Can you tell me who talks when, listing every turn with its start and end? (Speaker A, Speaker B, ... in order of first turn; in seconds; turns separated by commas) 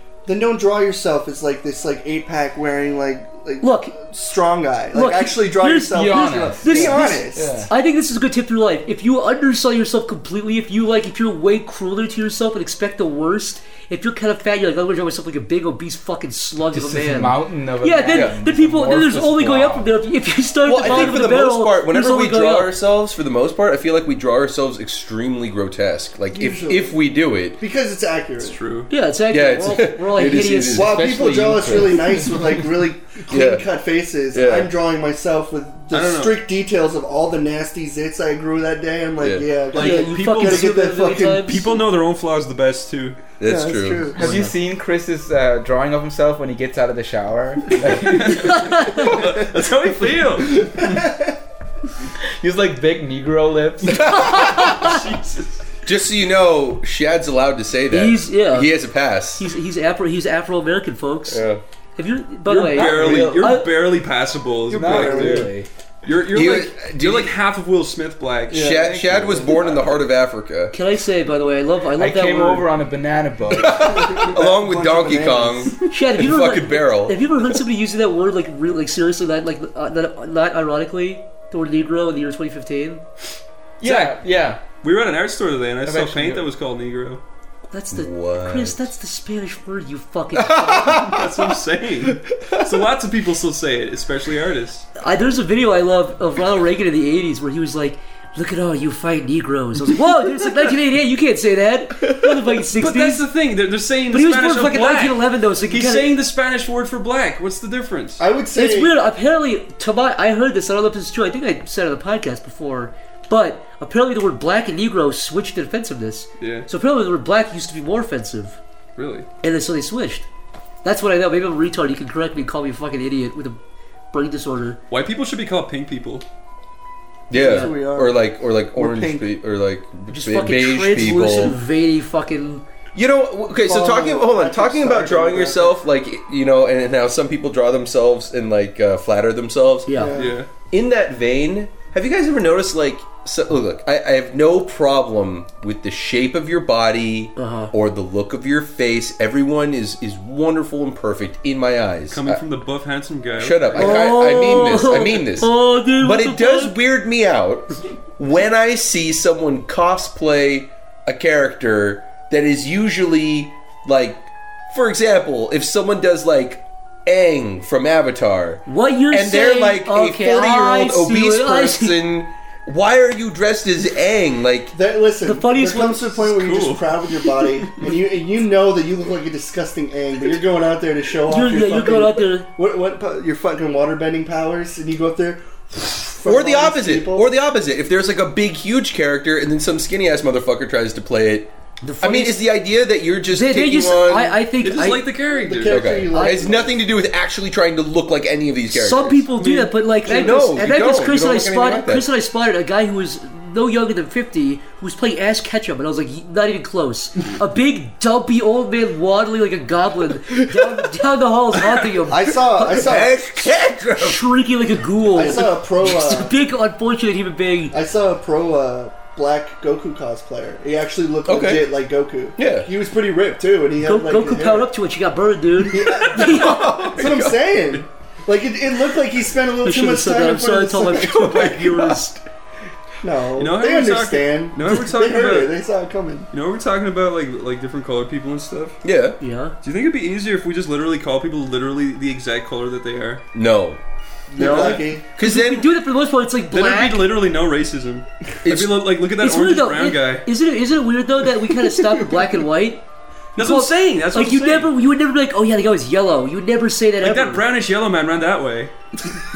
Speaker A: 0.2-7.7, Speaker B: 3.6-4.0, Speaker B: 4.9-22.7, Speaker C: 5.9-7.7, Speaker C: 16.7-19.9, Speaker D: 20.6-27.6, Speaker A: 26.3-27.0, Speaker A: 27.6-28.6, Speaker E: 28.4-28.9, Speaker B: 28.9-30.9, Speaker D: 29.3-30.9, Speaker C: 30.7-32.3, Speaker A: 30.7-41.6, Speaker D: 33.3-33.6, Speaker D: 34.3-34.7, Speaker E: 35.9-36.4, Speaker D: 39.2-39.5, Speaker E: 39.7-43.2, Speaker B: 39.7-41.7, Speaker D: 43.4-44.1, Speaker A: 43.4-44.3, Speaker C: 44.1-48.8, Speaker B: 44.2-44.5, Speaker E: 48.0-50.8, Speaker B: 48.4-49.0, Speaker A: 50.6-51.3, Speaker C: 52.4-54.6, Speaker D: 53.9-54.8, Speaker E: 54.4-55.6, Speaker D: 55.9-59.4, Speaker B: 57.9-58.7, Speaker B: 59.3-61.4, Speaker D: 61.3-61.6, Speaker B: 62.0-63.7, Speaker E: 62.4-65.5, Speaker C: 62.7-63.6, Speaker A: 64.7-65.5, Speaker C: 64.7-65.7, Speaker E: 66.0-70.0, Speaker D: 66.3-67.3, Speaker A: 68.5-69.4, Speaker D: 68.5-70.7, Speaker B: 70.7-72.7, Speaker C: 72.0-74.3, Speaker D: 73.5-77.2, Speaker A: 73.7-75.7, Speaker B: 75.9-83.0, Speaker C: 83.8-84.6, Speaker E: 83.8-84.2, Speaker E: 84.7-87.2, Speaker C: 85.8-86.5, Speaker B: 87.7-91.2, Speaker D: 87.9-88.8, Speaker D: 90.3-91.2, Speaker E: 90.9-94.9, Speaker B: 95.0-103.2, Speaker E: 102.7-108.2, Speaker B: 104.1-106.1, Speaker A: 108.2-108.9, Speaker B: 108.5-118.6, Speaker E: 116.4-116.7, Speaker E: 119.0-119.3, Speaker B: 119.4-120.3, Speaker B: 120.8-123.6, Speaker B: 124.1-124.8, Speaker E: 124.9-126.2, Speaker D: 127.3-131.6, Speaker B: 127.3-127.8, Speaker A: 127.3-129.3, Speaker B: 130.1-132.6, Speaker D: 132.9-139.9, Speaker A: 133.6-135.8, Speaker B: 139.8-140.2, Speaker A: 139.9-140.4, Speaker E: 140.1-140.5, Speaker D: 140.6-152.4, Speaker B: 147.3-147.7, Speaker E: 152.1-154.0, Speaker D: 153.4-174.7, Speaker B: 153.7-156.7, Speaker B: 168.7-172.0, Speaker A: 174.7-187.3, Speaker B: 175.2-176.1, Speaker E: 176.2-177.8, Speaker B: 181.3-182.5, Speaker D: 186.2-191.5, Speaker B: 191.8-192.5, Speaker D: 192.0-194.4, Speaker B: 193.3-195.1, Speaker E: 194.6-195.9, Speaker A: 195.3-196.8, Speaker D: 195.7-199.3, Speaker B: 196.1-196.5, Speaker B: 198.7-212.9, Speaker E: 199.4-199.7, Speaker D: 200.0-202.1, Speaker E: 211.5-212.0, Speaker A: 212.1-213.2, Speaker D: 212.6-214.3, Speaker B: 213.9-217.7, Speaker A: 215.1-216.3, Speaker A: 217.7-224.7, Speaker D: 221.2-221.7, Speaker D: 222.4-222.7, Speaker B: 223.8-227.0, Speaker A: 225.6-231.4, Speaker D: 226.0-227.4, Speaker B: 229.6-232.2, Speaker D: 230.9-232.0, Speaker A: 233.0-236.3, Speaker E: 233.3-235.5, Speaker E: 236.3-238.8, Speaker D: 238.8-239.2, Speaker B: 239.2-239.5, Speaker E: 239.6-243.2, Speaker D: 243.3-243.8, Speaker A: 244.3-245.1, Speaker E: 244.3-244.9, Speaker D: 244.4-245.7, Speaker B: 245.2-247.1, Speaker E: 246.5-250.2, Speaker D: 248.4-248.8, Speaker B: 249.2-252.8, Speaker E: 253.3-254.7, Speaker B: 253.3-257.4, Speaker E: 257.0-258.7